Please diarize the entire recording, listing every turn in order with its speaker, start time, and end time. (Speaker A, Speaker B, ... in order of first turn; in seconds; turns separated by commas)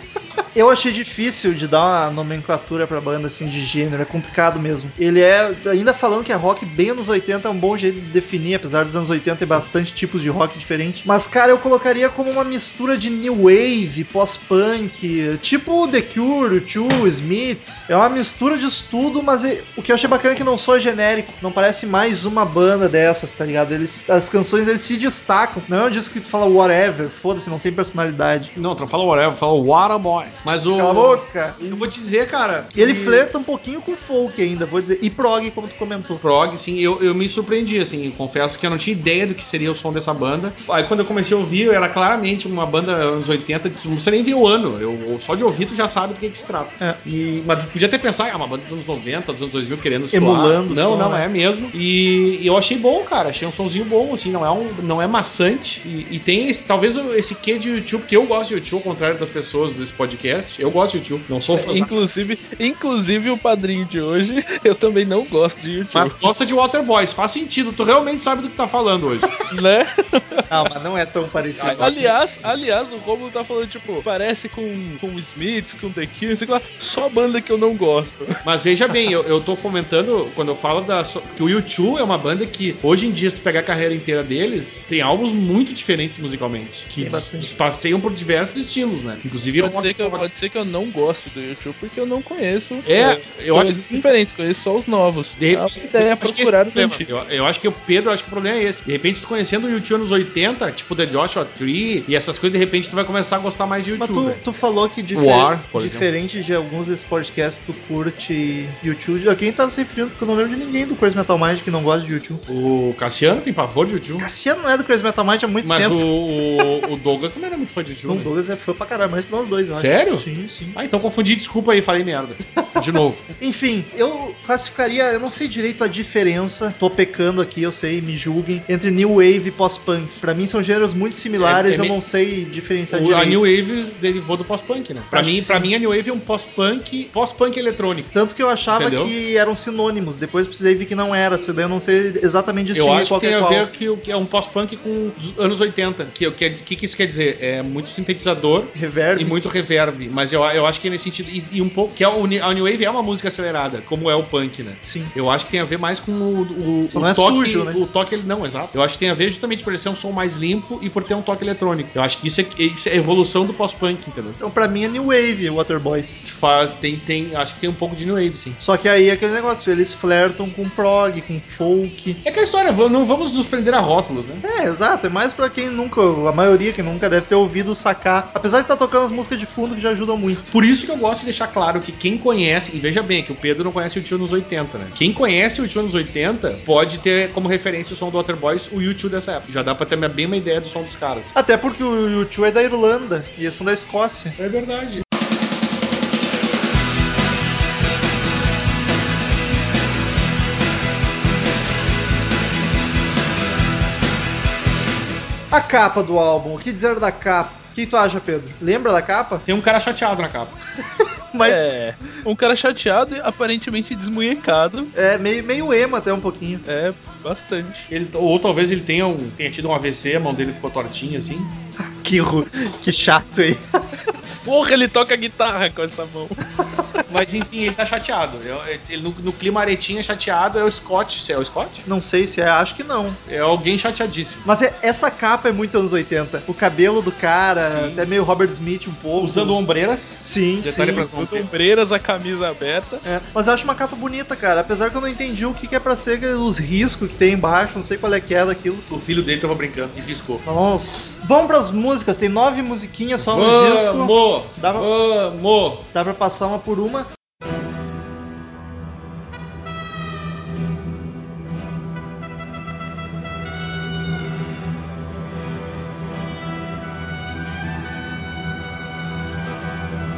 Speaker A: 0.5-28.5, Speaker B: 28.6-33.3, Speaker A: 30.6-31.9, Speaker A: 32.7-36.2, Speaker B: 36.2-62.0, Speaker A: 50.1-51.2, Speaker C: 61.5-66.2, Speaker B: 65.9-69.3, Speaker C: 69.5-70.4, Speaker A: 70.5-72.1, Speaker B: 71.5-72.2, Speaker C: 71.8-78.3, Speaker B: 78.4-90.2, Speaker A: 87.0-87.5, Speaker C: 89.6-97.1, Speaker B: 92.8-94.0, Speaker B: 95.4-104.4, Speaker A: 104.0-112.4, Speaker B: 105.1-106.1, Speaker B: 112.5-114.3, Speaker A: 114.2-116.1, Speaker B: 115.6-118.3, Speaker A: 118.0-120.8, Speaker B: 119.7-123.3, Speaker A: 123.4-133.4, Speaker B: 131.4-132.0, Speaker B: 132.9-138.1, Speaker A: 135.1-135.7, Speaker A: 138.1-143.7, Speaker B: 138.7-139.1, Speaker B: 142.7-164.4, Speaker A: 148.8-149.4, Speaker A: 154.8-155.1, Speaker A: 156.9-157.8, Speaker A: 164.4-166.2, Speaker B: 166.2-168.6, Speaker A: 168.6-172.2, Speaker B: 172.2-174.4, Speaker A: 174.4-180.5, Speaker B: 180.5-191.3, Speaker A: 191.3-194.3, Speaker B: 194.4-195.0, Speaker A: 205.5-209.4, Speaker B: 209.5-210.6, Speaker A: 211.3-211.7, Speaker C: 211.4-214.9, Speaker A: 214.9-216.6, Speaker C: 216.7-217.9, Speaker B: 217.9-221.5, Speaker A: 221.8-223.6, Speaker C: 224.4-226.3, Speaker B: 227.1-231.8, Speaker A: 231.8-233.2, Speaker B: 233.3-234.5, Speaker A: 234.4-239.6, Speaker B: 237.6-238.1, Speaker B: 239.2-241.6, Speaker A: 240.2-241.1, Speaker C: 240.6-243.0, Speaker A: 243.0-248.9, Speaker B: 248.9-250.4, Speaker A: 250.5-254.9, Speaker B: 253.2-255.8, Speaker A: 255.9-257.1